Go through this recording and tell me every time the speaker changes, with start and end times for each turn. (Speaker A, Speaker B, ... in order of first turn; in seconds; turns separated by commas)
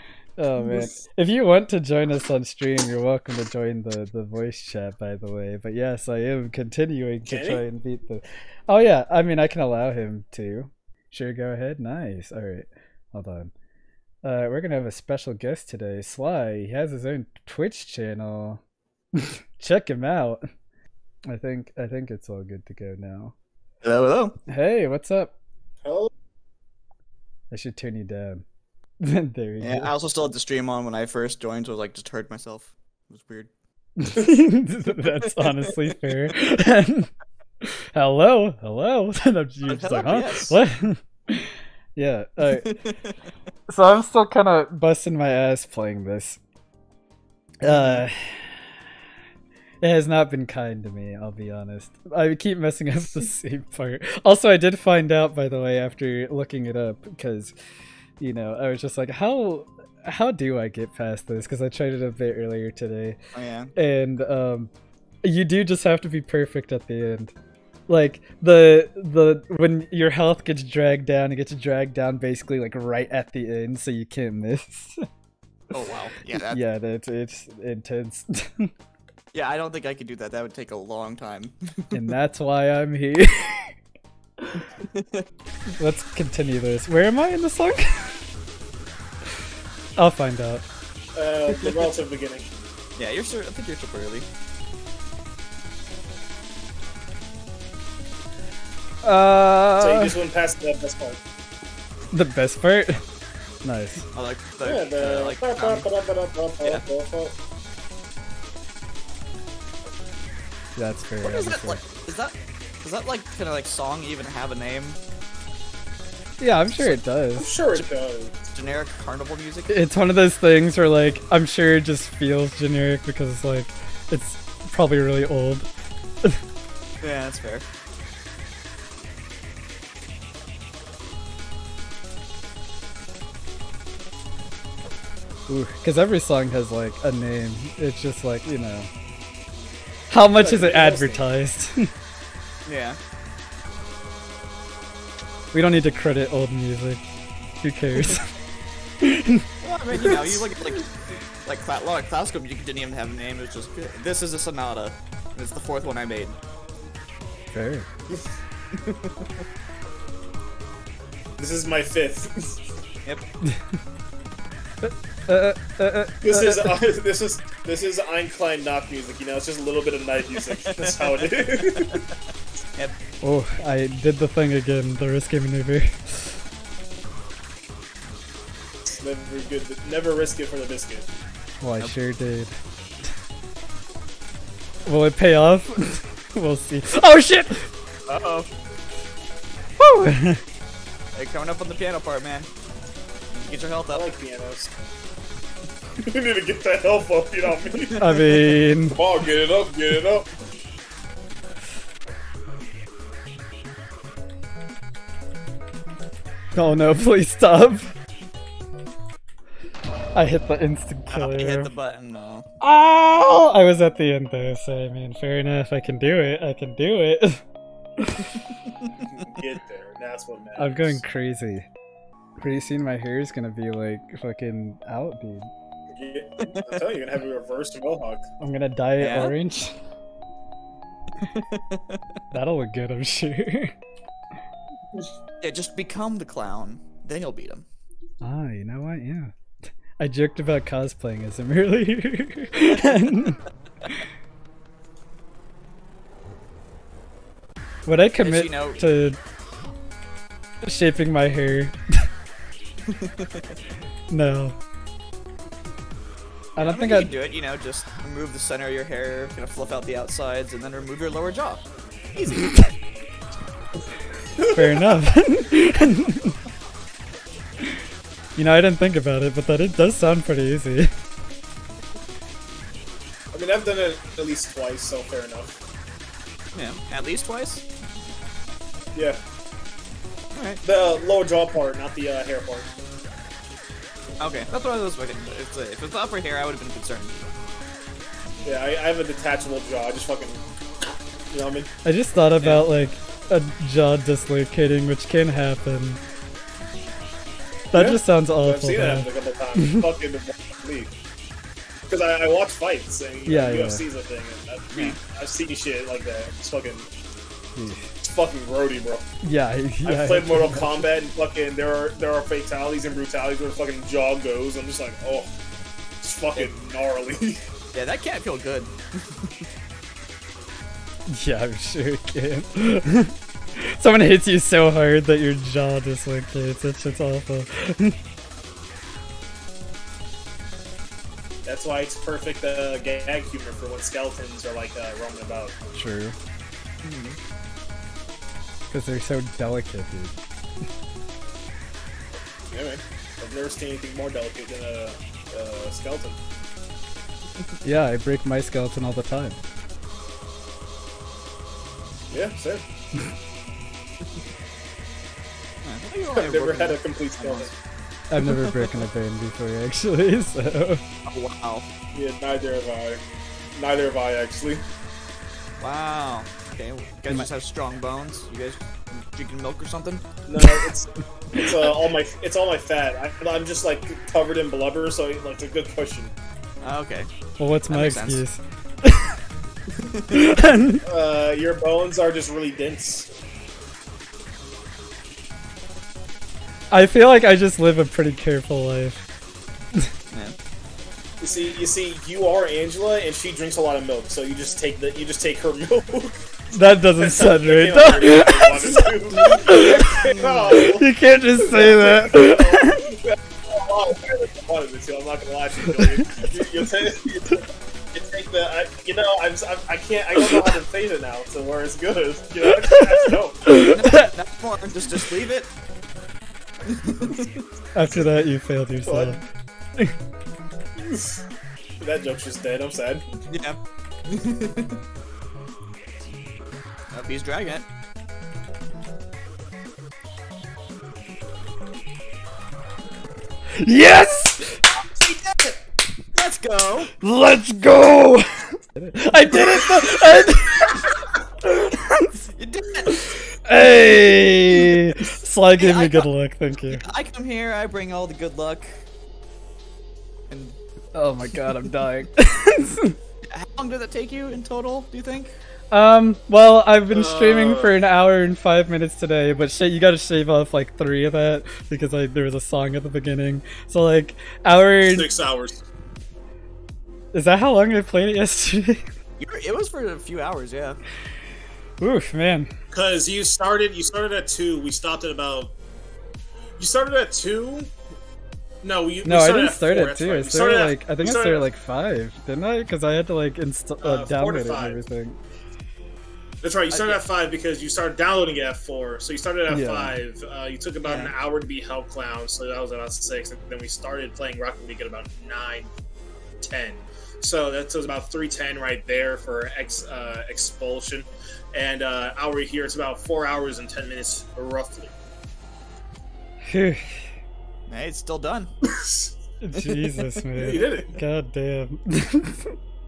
Speaker A: 0.4-13.5, Speaker B: 7.3-7.6, Speaker A: 14.2-18.6, Speaker A: 19.1-20.4, Speaker A: 21.3-23.4, Speaker C: 23.8-24.4, Speaker A: 24.5-25.3, Speaker B: 25.8-26.1, Speaker A: 27.5-28.4, Speaker A: 29.0-29.9, Speaker C: 29.6-33.5, Speaker A: 34.0-37.1, Speaker C: 35.2-35.7, Speaker A: 37.6-42.8, Speaker C: 39.7-40.6, Speaker C: 42.5-43.1, Speaker A: 43.7-46.4, Speaker A: 47.6-48.7, Speaker C: 47.7-48.0, Speaker A: 49.8-57.5, Speaker A: 58.2-63.2, Speaker C: 63.4-63.7, Speaker A: 63.8-64.7, Speaker A: 65.2-67.3, Speaker A: 67.9-75.0, Speaker C: 75.7-76.6, Speaker A: 76.4-78.7, Speaker C: 79.3-81.5, Speaker A: 81.9-83.8, Speaker C: 84.8-85.2, Speaker A: 85.8-88.2, Speaker A: 90.0-90.6, Speaker B: 91.2-92.5, Speaker C: 93.0-94.3, Speaker A: 99.0-100.2, Speaker B: 99.8-101.2, Speaker A: 102.1-103.0, Speaker A: 103.6-104.1, Speaker C: 104.1-105.9, Speaker B: 104.6-107.3, Speaker A: 110.8-111.8, Speaker C: 111.2-115.0, Speaker A: 116.4-117.5, Speaker C: 116.7-117.0, Speaker B: 117.4-118.3, Speaker C: 118.5-119.8, Speaker A: 119.7-125.7, Speaker C: 127.0-127.7, Speaker A: 135.5-138.9, Speaker A: 140.1-141.9, Speaker B: 140.4-141.3, Speaker C: 142.7-143.0, Speaker A: 145.5-147.0, Speaker A: 147.6-148.3, Speaker A: 149.0-149.4, Speaker C: 149.6-156.4, Speaker B: 150.0-150.4, Speaker A: 157.5-157.9, Speaker C: 158.7-159.3, Speaker B: 161.4-162.6, Speaker A: 163.4-163.8, Speaker A: 164.8-166.8, Speaker B: 166.2-172.0, Speaker C: 170.5-172.1, Speaker A: 173.2-176.4, Speaker B: 178.9-181.1, Speaker A: 181.6-182.5, Speaker A: 184.8-187.7, Speaker C: 188.1-188.5, Speaker A: 189.8-190.4, Speaker C: 191.1-192.5, Speaker C: 193.3-194.1, Speaker B: 193.9-194.7, Speaker B: 196.0-200.3, Speaker A: 198.0-199.0, Speaker A: 206.6-207.9, Speaker A: 210.2-211.7, Speaker C: 211.1-212.5, Speaker A: 212.6-217.4, Speaker A: 218.0-218.4, Speaker B: 219.2-221.0, Speaker A: 220.6-221.7, Speaker A: 222.4-225.5, Speaker B: 225.9-228.3, Speaker C: 226.5-226.8, Speaker A: 228.4-229.8, Speaker C: 229.0-229.3, Speaker C: 231.2-232.0, Speaker A: 232.3-233.7, Speaker C: 235.4-237.7, Speaker A: 238.2-239.3, Speaker A: 240.0-243.4, Speaker A: 247.9-249.2, Speaker C: 248.2-248.8, Speaker A: 250.6-251.8, Speaker C: 252.9-253.5, Speaker A: 254.1-254.6, Speaker A: 256.6-257.1, Speaker C: 256.6-261.6, Speaker C: 262.2-262.4, Speaker A: 262.3-262.7, Speaker B: 264.4-264.8, Speaker A: 264.5-266.4, Speaker A: 268.4-270.9, Speaker B: 273.3-275.6, Speaker C: 276.5-277.6, Speaker C: 280.3-280.6, Speaker B: 280.6-282.7, Speaker C: 284.2-287.1, Speaker B: 288.4-291.7, Speaker A: 291.9-296.0, Speaker C: 292.4-292.7, Speaker A: 297.7-299.9, Speaker B: 297.7-300.9, Speaker B: 301.9-306.9, Speaker A: 303.3-303.8, Speaker A: 307.6-307.9, Speaker B: 308.0-309.1, Speaker A: 309.2-310.9, Speaker B: 309.9-315.3, Speaker B: 316.0-317.4, Speaker C: 317.7-319.4, Speaker A: 321.1-328.0, Speaker B: 331.4-335.6, Speaker A: 335.7-336.2, Speaker C: 336.8-337.2, Speaker A: 338.7-340.2, Speaker B: 342.5-346.2, Speaker A: 347.6-349.4, Speaker B: 352.1-352.6, Speaker C: 355.6-357.5, Speaker B: 356.1-357.5, Speaker A: 358.1-360.8, Speaker C: 358.2-358.7, Speaker C: 361.1-361.7, Speaker B: 361.9-363.0, Speaker B: 363.6-364.6, Speaker C: 365.6-370.0, Speaker B: 370.3-376.1, Speaker C: 376.6-377.1, Speaker A: 377.4-379.2, Speaker C: 377.7-378.2, Speaker C: 379.8-380.2, Speaker A: 380.1-380.8, Speaker B: 380.8-383.1, Speaker A: 386.7-389.0, Speaker B: 391.2-396.3, Speaker A: 396.5-402.9, Speaker B: 397.0-400.9, Speaker C: 399.1-400.7, Speaker B: 401.4-413.5, Speaker A: 405.8-406.5, Speaker A: 412.6-414.1, Speaker C: 413.5-415.5, Speaker C: 416.6-417.4, Speaker A: 417.8-419.2, Speaker B: 418.9-419.2, Speaker B: 420.8-421.2, Speaker B: 421.8-423.1, Speaker C: 423.3-424.8, Speaker C: 426.9-427.7, Speaker A: 433.6-434.6, Speaker C: 434.6-435.5, Speaker B: 434.9-435.2, Speaker C: 436.1-436.9, Speaker A: 437.0-442.2, Speaker C: 442.3-443.1, Speaker A: 442.9-446.8, Speaker C: 445.6-446.1, Speaker C: 446.7-448.8, Speaker C: 450.3-450.6, Speaker A: 450.9-453.0, Speaker C: 453.2-455.3, Speaker A: 455.7-465.1, Speaker B: 456.9-457.8, Speaker B: 464.8-465.6, Speaker A: 467.1-468.9, Speaker C: 469.2-470.8, Speaker A: 471.8-472.5, Speaker B: 472.7-475.5, Speaker B: 476.6-477.7, Speaker B: 478.6-481.5, Speaker A: 479.0-485.2, Speaker B: 483.8-484.8, Speaker B: 486.4-495.7, Speaker C: 486.7-487.0, Speaker A: 489.5-490.0, Speaker C: 490.9-491.1, Speaker B: 496.4-504.9, Speaker A: 506.5-507.1, Speaker C: 507.7-508.5, Speaker B: 508.6-509.1, Speaker A: 509.4-512.5, Speaker C: 509.6-510.2, Speaker B: 510.4-511.0